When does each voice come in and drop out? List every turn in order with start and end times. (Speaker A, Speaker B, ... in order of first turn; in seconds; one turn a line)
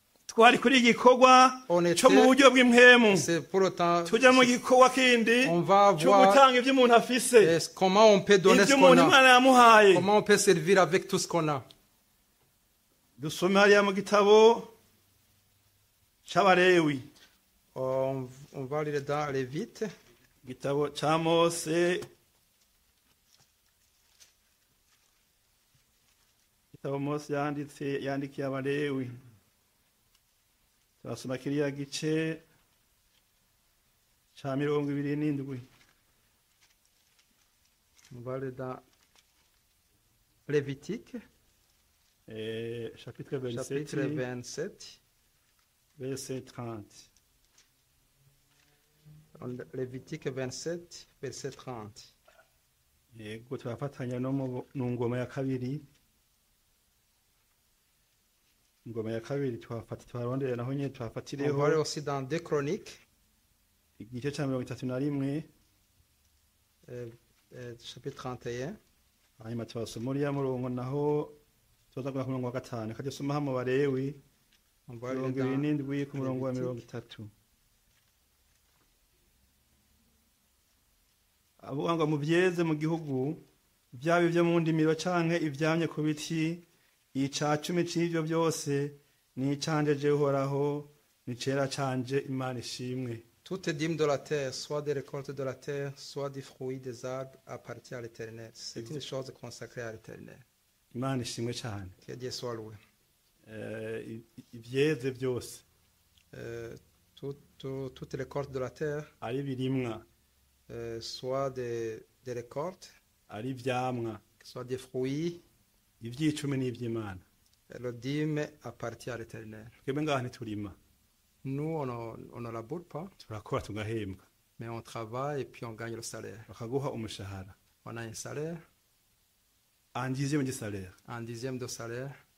Speaker A: 0.3-3.3
Speaker B: 1.7-2.4
Speaker B: 3.1-4.5
Speaker A: 4.1-7.5
Speaker B: 5.4-6.4
Speaker B: 7.4-9.2
Speaker A: 8.4-10.1
Speaker B: 9.9-11.6
Speaker A: 13.2-14.7
Speaker A: 16.2-17.1
Speaker B: 17.7-19.9
Speaker A: 20.4-22.1
Speaker A: 26.7-29.1
Speaker A: 31.0-32.4
Speaker A: 34.4-35.6
Speaker B: 38.1-38.8
Speaker B: 40.5-41.2
Speaker A: 42.3-44.2
Speaker B: 43.5-45.0
Speaker A: 46.0-47.1
Speaker B: 49.4-52.1
Speaker A: 53.1-55.9
Speaker A: 58.8-61.8
Speaker B: 61.4-63.0
Speaker A: 64.0-65.5
Speaker B: 66.9-68.8
Speaker A: 69.4-71.4
Speaker A: 71.9-74.2
Speaker B: 74.9-76.8
Speaker A: 75.1-77.3
Speaker A: 81.6-93.2
Speaker B: 93.4-100.4
Speaker A: 98.7-99.0
Speaker A: 100.9-102.0
Speaker B: 102.0-102.8
Speaker A: 103.5-105.6
Speaker B: 106.3-109.1
Speaker A: 109.2-110.0
Speaker B: 110.7-112.9
Speaker A: 113.3-114.2
Speaker B: 114.4-115.4
Speaker A: 116.0-117.2
Speaker B: 117.7-119.7
Speaker A: 119.8-120.8
Speaker B: 121.4-123.1
Speaker A: 123.2-124.3
Speaker B: 124.6-126.5
Speaker A: 126.5-127.5
Speaker B: 127.8-128.6
Speaker A: 129.9-130.9
Speaker B: 131.1-132.2